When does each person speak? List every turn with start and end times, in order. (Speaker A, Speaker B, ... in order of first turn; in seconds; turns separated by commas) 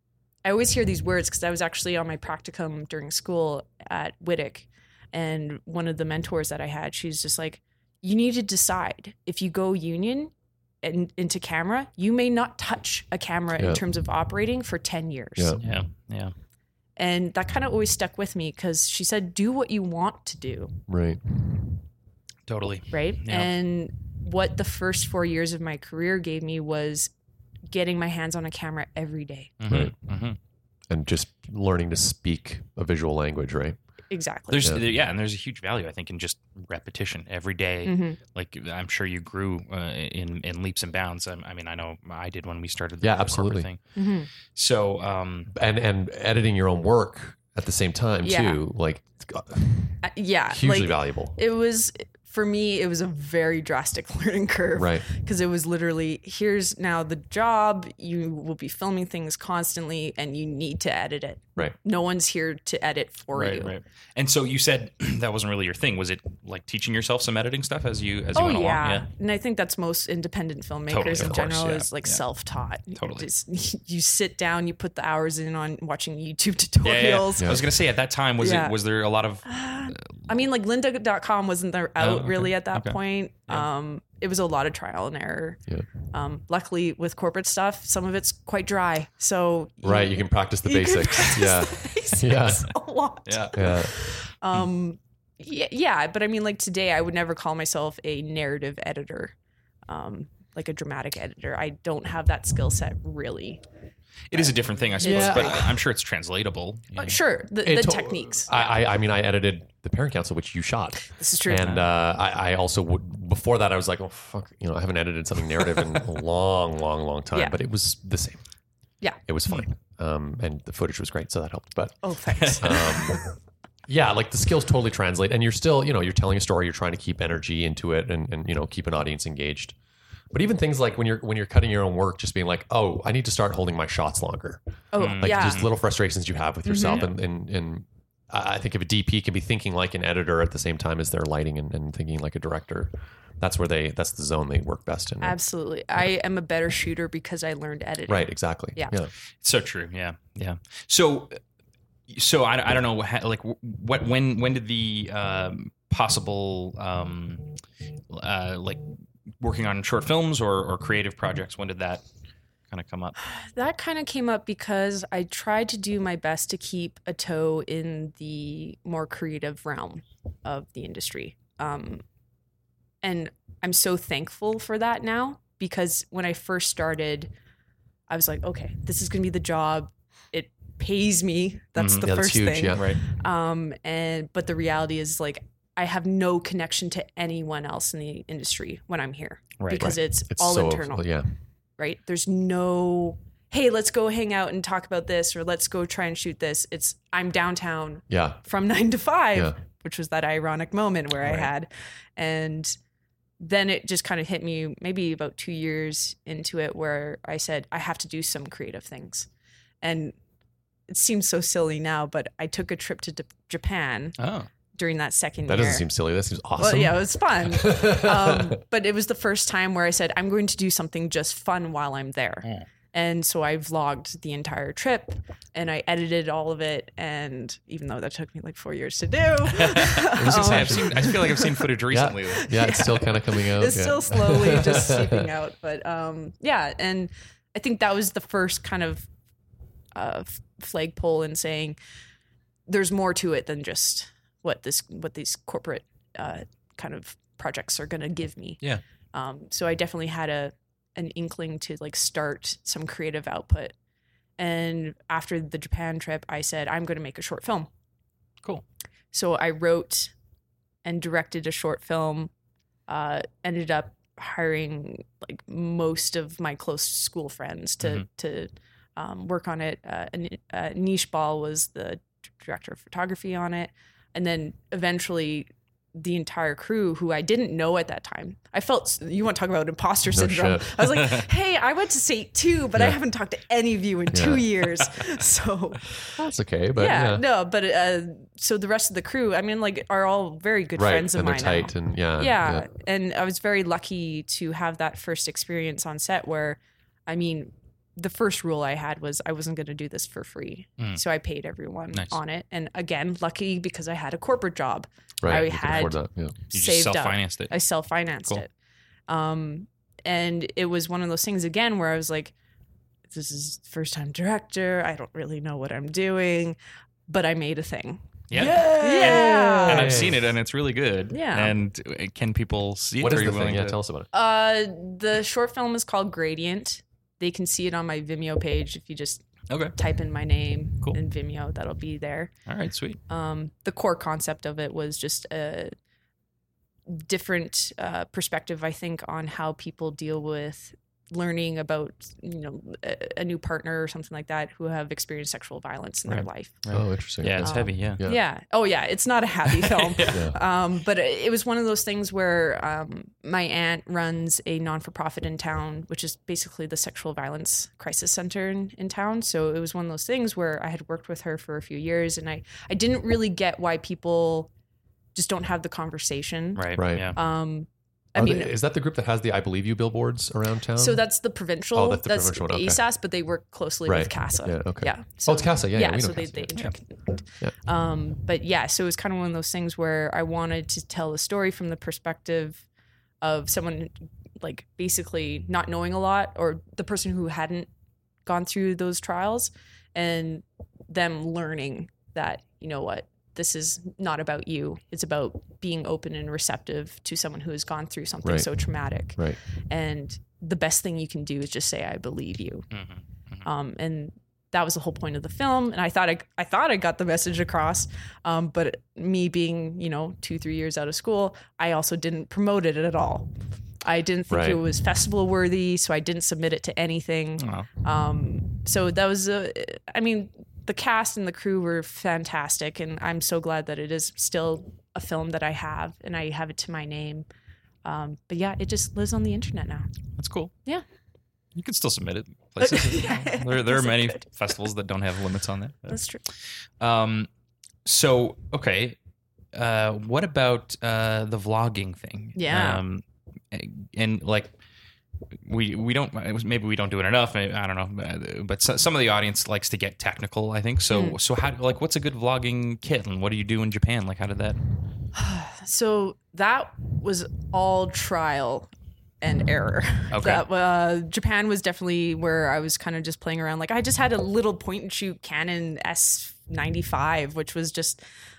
Speaker A: 0.4-15.6, Speaker B: 15.4-15.6, Speaker C: 15.6-16.3, Speaker A: 17.0-20.8, Speaker B: 20.9-21.4, Speaker C: 22.5-23.5, Speaker A: 22.9-27.1, Speaker A: 27.7-29.5, Speaker C: 29.6-30.4, Speaker B: 29.7-29.9, Speaker B: 30.9-33.8, Speaker A: 34.1-34.8, Speaker C: 34.5-44.0, Speaker A: 37.8-38.2, Speaker B: 43.0-43.7, Speaker A: 44.0-44.3, Speaker C: 44.5-45.5, Speaker B: 45.5-51.4, Speaker A: 48.2-48.6, Speaker A: 50.0-63.7, Speaker B: 54.7-55.1, Speaker C: 63.3-69.0, Speaker A: 68.3-77.7, Speaker C: 70.9-72.2, Speaker B: 71.2-71.4, Speaker C: 72.9-73.3, Speaker C: 76.8-80.3, Speaker B: 77.4-77.6, Speaker A: 78.4-78.8, Speaker A: 79.4-85.6, Speaker C: 82.0-83.7, Speaker A: 86.1-99.3, Speaker B: 89.8-92.7, Speaker C: 93.2-93.6, Speaker B: 93.5-93.9, Speaker A: 99.9-103.6, Speaker C: 104.3-107.2, Speaker A: 104.3-105.8, Speaker B: 105.0-105.7, Speaker A: 107.0-108.7, Speaker B: 107.6-118.4, Speaker A: 111.1-111.9, Speaker B: 119.2-122.0, Speaker A: 122.0-123.1, Speaker C: 122.3-123.2, Speaker B: 122.6-123.2, Speaker B: 123.9-129.7, Speaker B: 130.3-134.6, Speaker A: 134.9-135.7, Speaker C: 134.9-135.7, Speaker B: 135.2-145.4, Speaker A: 136.7-137.1, Speaker A: 145.2-148.9, Speaker B: 148.1-149.1, Speaker C: 149.4-151.4, Speaker C: 152.1-157.5, Speaker C: 158.1-158.9, Speaker C: 159.4-162.0, Speaker C: 162.7-163.2, Speaker A: 163.2-172.0, Speaker A: 173.0-177.3, Speaker A: 178.1-191.1, Speaker C: 181.8-182.1, Speaker B: 182.0-182.9, Speaker C: 182.7-183.0, Speaker C: 189.6-189.9, Speaker B: 189.8-191.3, Speaker A: 191.8-202.8, Speaker B: 198.1-198.4, Speaker A: 203.4-209.3, Speaker A: 209.8-210.2, Speaker A: 210.9-214.2, Speaker C: 214.2-214.5, Speaker A: 214.7-215.9, Speaker B: 215.5-218.6, Speaker A: 216.6-231.7, Speaker C: 229.4-232.5, Speaker B: 230.1-231.2, Speaker B: 231.9-235.2, Speaker A: 232.4-239.1, Speaker A: 239.9-241.8, Speaker A: 242.7-248.6, Speaker A: 249.1-253.7, Speaker A: 254.4-257.7, Speaker A: 259.1-260.1, Speaker A: 260.8-262.3, Speaker A: 262.9-285.9, Speaker B: 280.1-281.1, Speaker B: 284.1-284.5, Speaker B: 286.2-287.2, Speaker A: 286.8-306.0, Speaker B: 290.8-292.7, Speaker C: 301.9-302.2, Speaker B: 305.2-306.4, Speaker A: 306.5-308.5, Speaker C: 306.5-307.5, Speaker A: 309.1-312.3, Speaker A: 313.1-316.6, Speaker A: 317.1-318.1, Speaker C: 318.3-323.8, Speaker B: 318.3-320.3, Speaker A: 318.7-320.1, Speaker A: 321.1-321.6, Speaker B: 323.0-324.1, Speaker A: 324.1-332.3, Speaker C: 329.5-329.7, Speaker C: 332.4-333.0, Speaker A: 333.1-335.7, Speaker A: 336.9-346.6, Speaker C: 346.1-348.0, Speaker B: 346.7-348.2, Speaker A: 347.4-364.5, Speaker C: 349.5-350.2, Speaker B: 350.1-350.4, Speaker A: 365.1-368.5, Speaker C: 366.6-367.2, Speaker B: 366.8-367.1, Speaker B: 368.1-371.0, Speaker A: 370.8-382.6, Speaker B: 371.7-372.8, Speaker B: 373.9-376.6, Speaker A: 383.2-387.7, Speaker A: 388.2-402.7, Speaker B: 398.2-398.5, Speaker C: 402.7-403.5, Speaker A: 403.4-413.3, Speaker A: 413.8-427.2, Speaker B: 414.3-414.6, Speaker C: 417.4-417.7, Speaker A: 427.8-429.9, Speaker C: 430.2-430.5, Speaker C: 431.5-437.3, Speaker A: 432.6-434.2, Speaker A: 435.9-436.2, Speaker C: 437.8-438.9, Speaker C: 439.5-444.5, Speaker A: 442.4-442.8, Speaker C: 445.4-454.6, Speaker A: 450.9-451.2, Speaker A: 455.1-458.7, Speaker A: 459.2-468.0, Speaker C: 460.1-460.4